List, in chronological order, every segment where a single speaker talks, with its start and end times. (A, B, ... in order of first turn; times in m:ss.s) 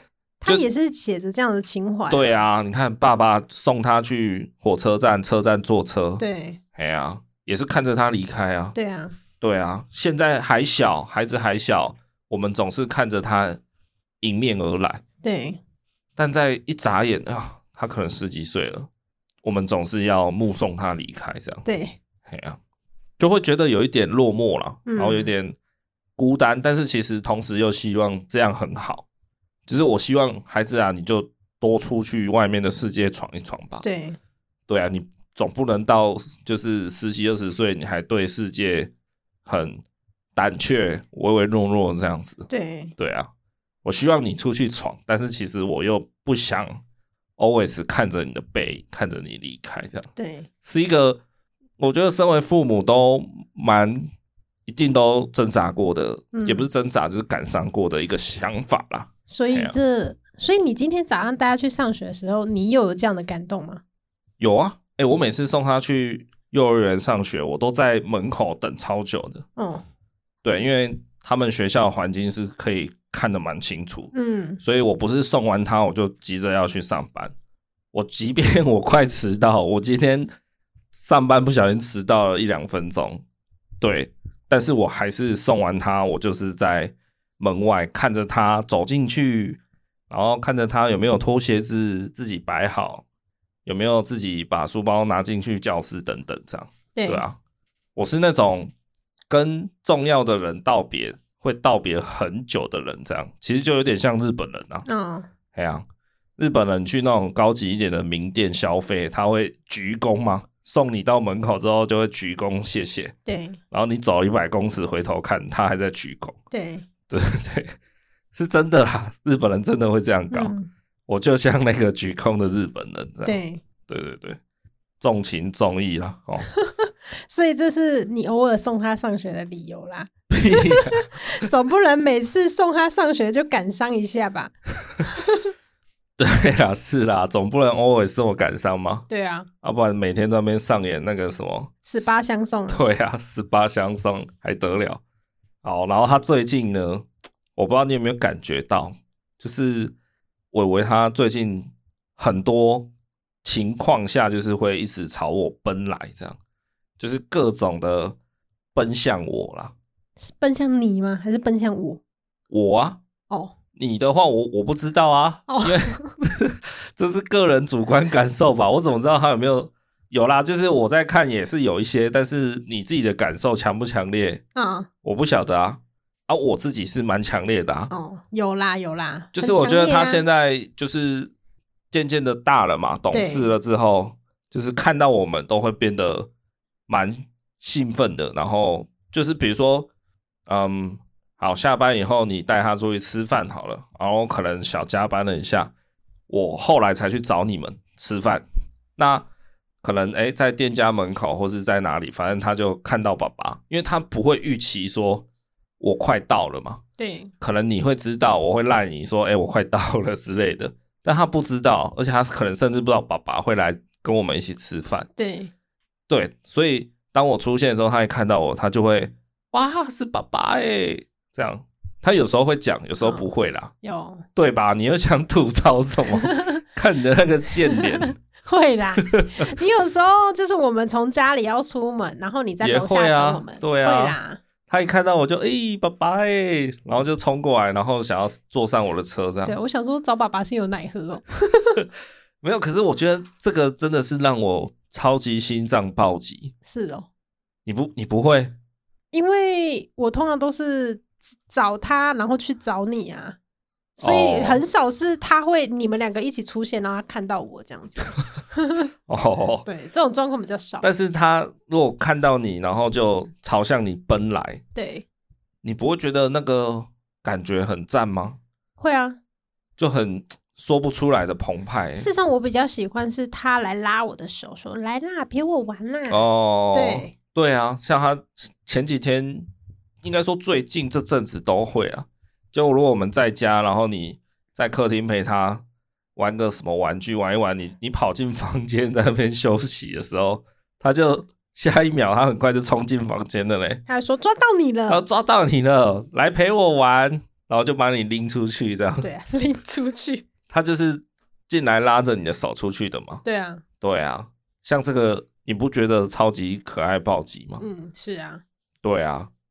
0:00.4-0:02.3 A
0:02.1-0:06.2 B
0:06.2-0:06.6 A
0:06.8-0:08.8 B
0:08.8-0:09.2 A
0:09.4-0:13.6 B
0:14.2-0:15.0 B
0:15.2-0:15.6 A
0:16.2-0:18.9 B
0:19.4-0:21.6 B
0:21.6-0:22.0 A
0:22.3-0:22.6 B
0:23.2-0:25.6 B
0:24.9-0:25.3 A
0:26.2-0:29.1 B
0:29.7-0:33.8 B
0:33.8-0:34.2 A
0:34.7-0:38.9 B
0:39.5-0:39.8 B
0:40.4-0:42.5 B
0:42.5-0:42.9 A
0:43.0-0:43.3 B
0:43.8-0:46.8 B
0:47.4-0:50.1 B
0:50.2-0:50.5 A
0:50.6-0:51.2 B
0:51.8-0:54.1 B
0:54.7-0:59.8 B
0:56.3-0:56.7 A
0:59.3-1:03.8 A
1:04.4-1:09.4 B
1:09.6-1:09.8 A
1:10.4-1:17.3 B
1:14.1-1:14.6 A
1:17.9-1:20.3 B
1:20.9-1:23.2 B
1:23.8-1:33.0 B
1:33.7-1:37.4 B
1:37.0-1:37.2 A
1:38.0-1:38.7 B
1:39.3-1:44.9 B
1:44.9-1:45.3 A
1:45.5-1:45.9 B
1:46.4-1:53.1 B
1:53.3-1:53.6 A
1:53.7-1:56.4 B
1:56.5-1:56.9 A
1:57.1-1:57.8 B
1:58.3-2:00.5 B
2:00.3-2:00.7 A
2:01.1-2:04.4 B
2:03.2-2:03.6 A
2:05.0-2:06.5 B
2:06.6-2:14.5 A
2:10.3-2:11.0 B
2:16.2-2:19.1 B
2:19.1-2:19.5 A
2:19.6-2:22.0 B
2:21.8-2:22.8 A
2:22.7-2:25.0 B
2:25.6-2:30.0 B
2:30.5-2:32.9 B
2:33.4-2:36.4 B
2:37.0-2:38.2 B
2:38.7-2:39.7 B
2:40.2-2:42.0 A
2:42.5-2:43.0 B
2:43.3-2:43.6 A
2:43.8-2:54.4 B
2:45.5-2:46.1 A
2:54.6-2:54.9 A
2:55.0-2:57.9 B
2:57.9-3:00.2 A
2:59.3-3:01.3 B
3:01.9-3:06.3 B
3:03.1-3:03.5 A
3:06.9-3:09.9 B
3:10.5-3:15.7 B
3:16.3-3:18.4 B
3:19.0-3:19.3 B
3:19.8-3:25.3 B
3:25.8-3:26.8 B
3:27.0-3:27.3 A
3:27.4-3:35.1 B
3:35.2-3:35.5 A
3:36.1-3:43.7 B
3:43.8-3:44.2 A
3:44.4-3:48.1 B
3:47.8-3:54.4 A
3:49.1-3:49.4 B
3:52.6-3:54.2 B
3:54.7-3:59.6 B
3:59.4-4:01.8 A
4:02.4-4:06.5 B
4:06.6-4:07.1 A
4:07.7-4:08.5 B
4:09.1-4:13.4 A
4:14.0-4:18.9 A
4:14.0-4:14.6 B
4:19.1-4:19.7 B
4:19.7-4:20.9 A
4:20.8-4:24.6 B
4:24.8-4:25.0 A
4:25.6-4:28.4 B
4:28.8-4:29.2 A
4:29.8-4:32.1 B
4:32.0-4:36.2 A
4:36.1-4:39.5 B
4:36.7-4:37.1 A
4:40.0-4:45.6 B
4:46.2-4:53.8 B
4:53.9-4:55.0 A
4:54.9-4:59.1 B
4:59.0-5:00.3 A
5:00.5-5:03.2 B
5:03.2-5:03.6 A
5:03.8-5:07.6 B
5:07.6-5:08.4 A
5:08.8-5:09.3 B